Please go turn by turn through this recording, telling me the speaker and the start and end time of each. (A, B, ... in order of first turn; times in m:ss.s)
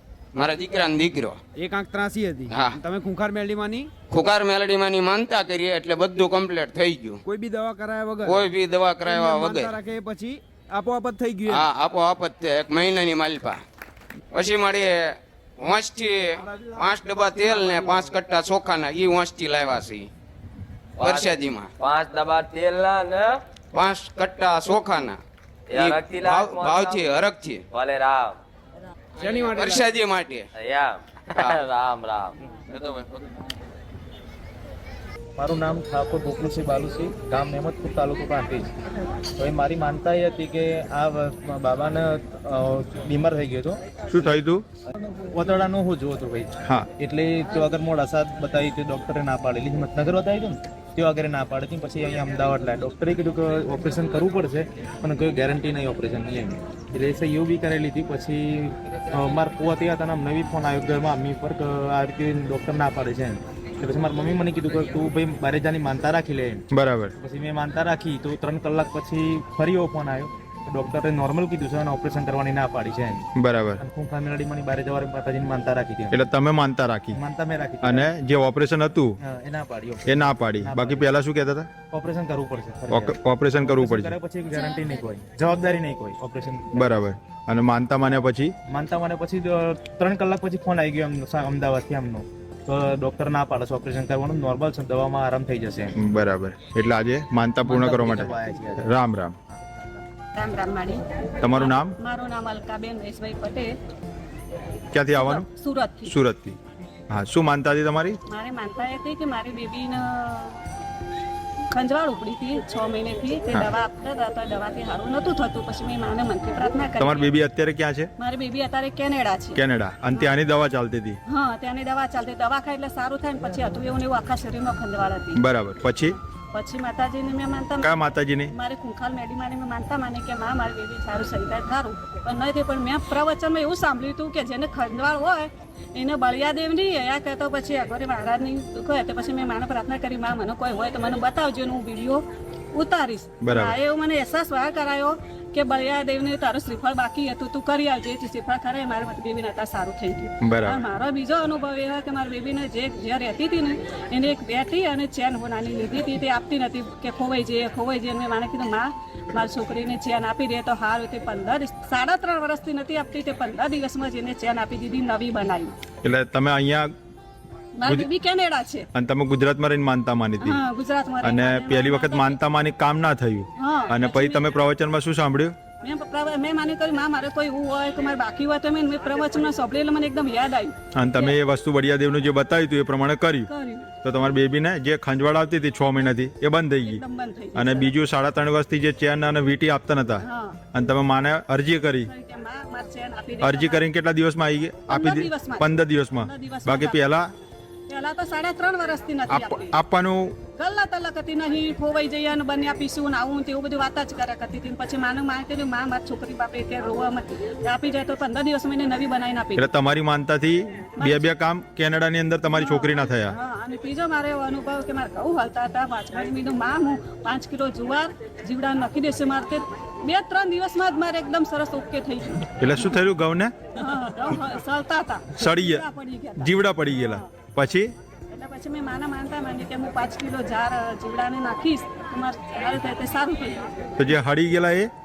0:00.3-0:01.4 A
0:01.6-0:03.9 B
0:02.5-0:02.8 A
0:04.1-0:07.2 A
0:07.2-0:08.4 B
0:08.2-0:09.8 A
0:09.0-0:11.6 B
0:11.5-0:13.6 A
0:14.3-0:14.9 A
0:15.6-0:20.1 A
0:21.0-0:23.4 C
0:21.0-0:21.7 A
0:23.7-0:25.2 A
0:25.7-0:28.4 C
0:25.7-0:27.7 A
0:29.2-0:30.5 A
0:29.2-0:29.7 B
0:30.5-0:32.4 C
0:32.7-0:33.1 A
0:35.4-0:38.7 D
0:39.4-0:44.3 D
0:44.1-0:44.6 E
0:45.3-1:06.6 D
1:06.7-1:07.1 E
1:07.2-1:13.3 D
1:13.3-1:13.8 E
1:13.8-1:16.2 D
1:16.1-1:17.2 E
1:17.1-1:18.1 D
1:17.8-1:19.2 E
1:19.2-1:21.1 D
1:20.0-1:21.7 E
1:21.9-1:26.8 D
1:22.9-1:24.2 E
1:26.7-1:28.5 E
1:28.7-1:36.0 D
1:36.0-1:39.4 E
1:37.6-1:38.9 D
1:39.5-1:39.9 D
1:40.4-1:43.7 F
1:41.4-1:42.0 E
1:44.9-1:45.4 E
1:45.2-1:46.1 F
1:46.0-1:46.6 E
1:47.1-1:48.2 E
1:48.3-1:50.6 F
1:51.7-1:57.3 F
1:57.0-1:58.1 E
1:58.2-1:59.6 F
1:59.6-2:01.2 E
2:01.3-2:05.4 F
2:05.4-2:06.2 E
2:06.1-2:45.8 F
2:07.8-2:08.5 E
2:23.4-2:23.8 E
2:30.4-2:30.8 E
2:46.0-2:46.9 E
2:47.8-2:48.9 F
2:48.9-2:50.6 E
2:50.4-2:52.3 F
2:51.2-2:55.5 E
2:53.6-2:54.5 F
2:55.8-3:01.4 F
3:00.9-3:03.5 E
3:03.5-3:04.0 F
3:04.0-3:07.0 E
3:06.8-3:07.9 F
3:07.6-3:12.1 E
3:10.2-3:10.7 F
3:12.0-3:13.8 F
3:13.4-3:17.3 E
3:14.9-3:15.6 F
3:16.2-3:17.0 F
3:17.9-3:19.7 F
3:19.3-3:20.4 E
3:20.6-3:29.6 F
3:29.6-3:33.3 E
3:31.0-3:31.3 F
3:32.5-3:42.9 F
3:42.5-3:43.5 E
3:43.7-3:47.3 F
3:45.4-3:45.8 E
3:46.4-3:47.9 E
3:48.3-3:53.8 F
3:54.0-3:54.9 E